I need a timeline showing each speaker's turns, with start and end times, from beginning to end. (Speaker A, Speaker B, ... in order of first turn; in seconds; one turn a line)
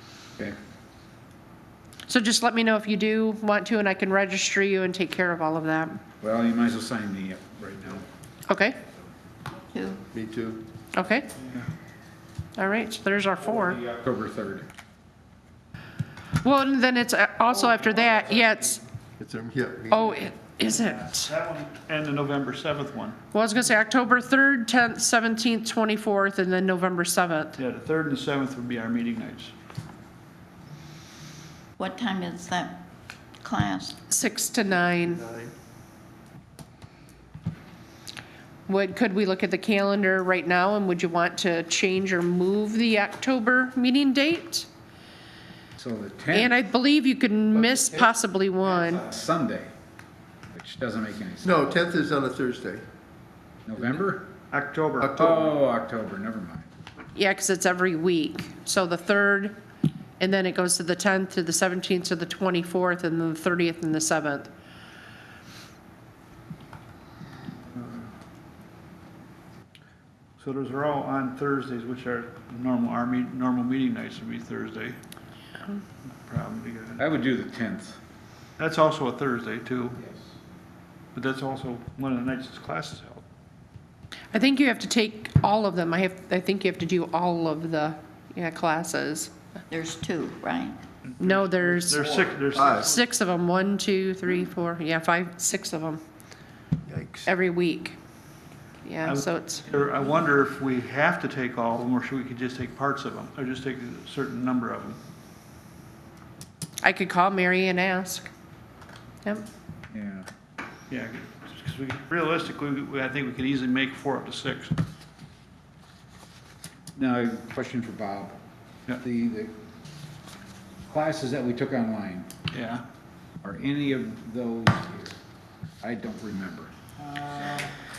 Speaker A: 2.1-6.0
Speaker B: 6.2-8.0
Speaker A: 8.5-8.8
Speaker C: 9.7-10.0
Speaker D: 10.1-10.6
Speaker A: 10.9-11.3
Speaker E: 11.4-11.7
Speaker A: 12.6-13.8
Speaker B: 13.6-14.7
Speaker A: 16.4-18.8
Speaker D: 19.2-20.2
Speaker A: 19.9-21.3
Speaker E: 20.6-23.2
Speaker A: 23.3-27.6
Speaker E: 27.6-29.5
Speaker C: 31.8-32.8
Speaker C: 33.4-34.0
Speaker A: 34.1-35.2
Speaker A: 38.7-44.7
Speaker B: 45.8-46.5
Speaker A: 46.3-49.0
Speaker B: 48.7-49.7
Speaker B: 50.5-51.7
Speaker D: 51.4-52.8
Speaker B: 53.7-54.3
Speaker E: 54.5-55.2
Speaker D: 55.0-55.4
Speaker B: 55.2-56.7
Speaker A: 57.1-59.6
Speaker A: 60.2-64.5
Speaker E: 67.8-68.1
Speaker E: 70.4-75.0
Speaker E: 76.1-77.0
Speaker B: 77.0-78.0
Speaker E: 78.6-80.0
Speaker E: 81.2-83.2
Speaker A: 84.3-89.3
Speaker C: 89.7-90.8
Speaker E: 91.1-93.0
Speaker A: 91.2-92.0
Speaker D: 92.1-92.9
Speaker A: 92.8-96.0
Speaker D: 96.9-97.2
Speaker A: 97.2-98.0
Speaker A: 98.8-99.7
Speaker E: 99.0-105.0
Speaker A: 106.8-108.3
Speaker B: 109.9-110.3
Speaker E: 110.9-114.8
Speaker B: 117.0-118.4
Speaker B: 119.0-119.6
Speaker B: 120.9-122.3
Speaker E: 122.5-122.8
Speaker B: 123.4-125.2
Speaker B: 125.8-126.7
Speaker E: 127.0-127.7